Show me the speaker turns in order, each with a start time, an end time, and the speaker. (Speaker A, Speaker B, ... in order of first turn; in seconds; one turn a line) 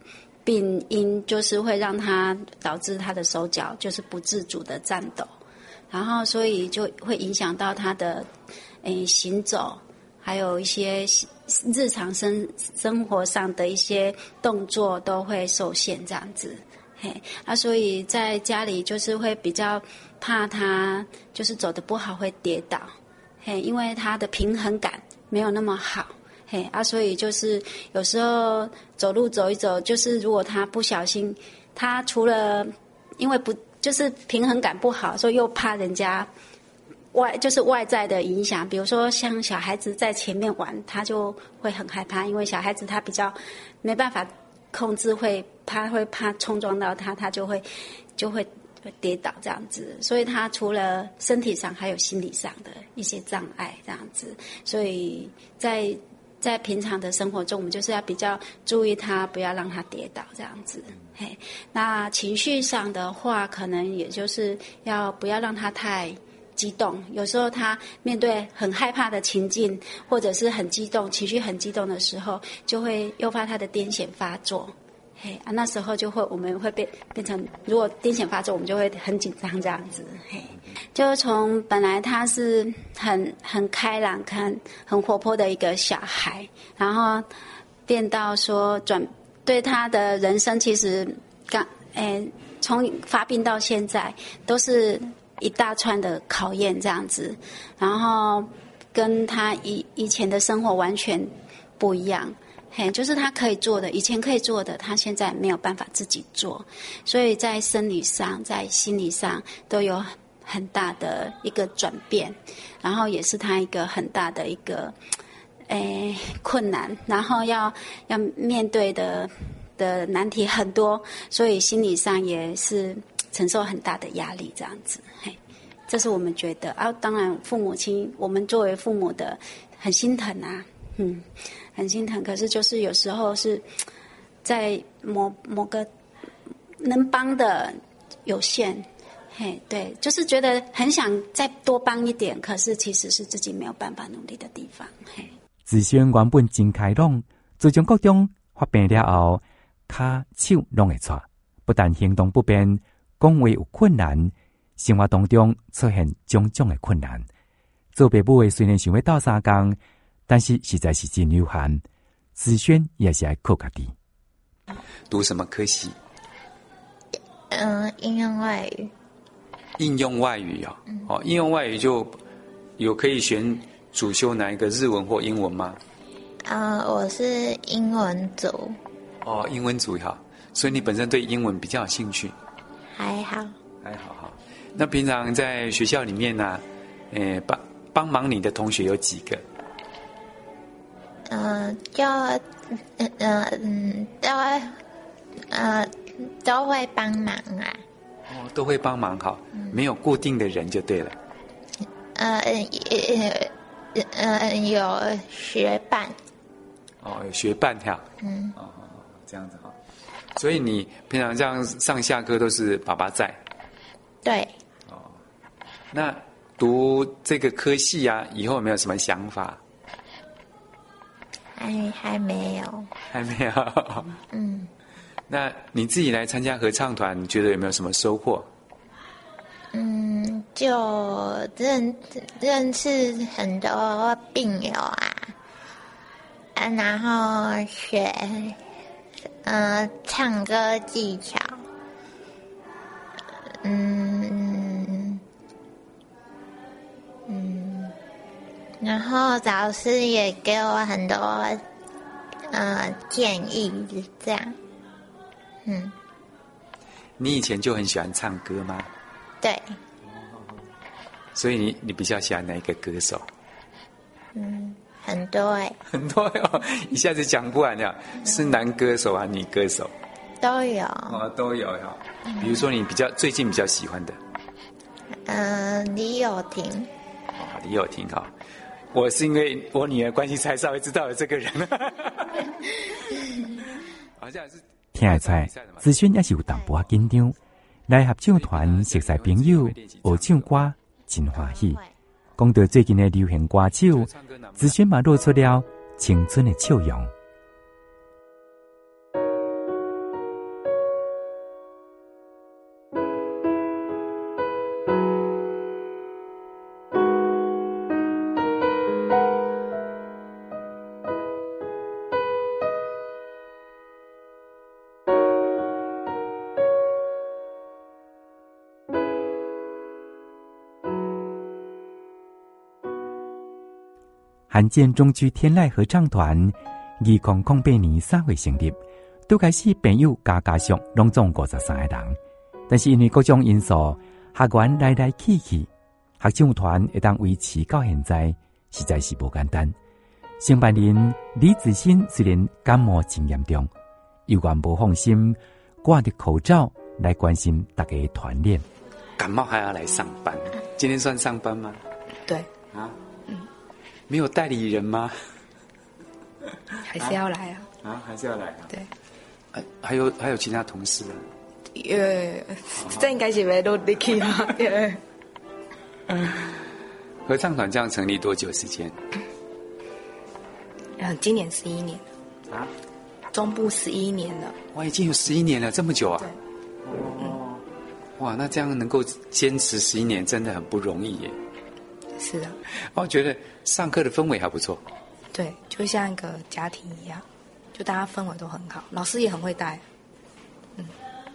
Speaker A: 0.5-5.3
Speaker A: 5.9-8.3
Speaker A: 8.8-36.3
Speaker A: 37.1-47.6
Speaker A: 48.1-87.3
Speaker A: 87.9-114.9
Speaker A: 115.7-133.6
Speaker A: 134.4-135.9
Speaker A: 136.8-145.3
Speaker B: 145.7-157.3
Speaker B: 157.9-161.8
Speaker B: 162.4-163.9
Speaker C: 165.1-165.9
Speaker D: 167.5-168.9
Speaker C: 169.8-172.2
Speaker C: 172.8-175.8
Speaker D: 176.4-178.8
Speaker C: 179.2-182.3
Speaker D: 182.9-183.5
Speaker C: 183.8-189.4
Speaker D: 191.3-194.8
Speaker D: 195.5-197.8
Speaker C: 198.3-201.2
Speaker D: 202.1-206.1
Speaker C: 207.0-208.0
Speaker D: 208.2-208.5
Speaker C: 208.6-209.7
Speaker C: 210.3-213.4
Speaker D: 214.2-214.5
Speaker C: 214.9-215.2
Speaker C: 215.9-219.6
Speaker D: 221.6-222.9
Speaker C: 223.1-224.2
Speaker D: 224.3-224.7
Speaker C: 225.3-228.5
Speaker D: 229.7-235.3
Speaker D: 236.6-238.6
Speaker D: 239.4-241.6
Speaker D: 243.6-245.2
Speaker D: 247.3-247.9
Speaker D: 248.8-251.6
Speaker D: 252.5-254.5
Speaker D: 255.6-255.9
Speaker C: 257.2-258.9
Speaker D: 259.4-259.8
Speaker C: 261.4-263.3
Speaker D: 264.3-265.8
Speaker C: 265.9-269.9
Speaker D: 270.4-271.2
Speaker C: 271.1-274.2
Speaker D: 275.3-276.9
Speaker C: 277.3-278.3
Speaker C: 278.9-285.9
Speaker B: 284.9-287.4
Speaker B: 287.9-291.8
Speaker C: 288.3-290.5
Speaker D: 291.4-291.9
Speaker B: 292.4-297.1
Speaker C: 293.9-294.7
Speaker B: 324.5-328.8
Speaker B: 329.3-332.2
Speaker B: 332.7-335.7
Speaker B: 336.2-339.7
Speaker B: 340.4-343.7
Speaker B: 344.3-348.6
Speaker C: 349.2-351.8
Speaker E: 352.2-352.5
Speaker C: 354.1-355.1
Speaker E: 356.9-357.7
Speaker C: 357.8-358.7
Speaker C: 359.5-361.2
Speaker E: 361.7-365.0
Speaker C: 362.8-363.0
Speaker C: 366.1-366.6
Speaker C: 367.2-368.9
Speaker E: 371.0-372.1
Speaker E: 373.3-374.6
Speaker C: 374.7-376.3
Speaker C: 376.9-377.6
Speaker C: 378.2-381.4
Speaker E: 382.1-382.6
Speaker C: 382.9-384.8
Speaker E: 385.3-389.8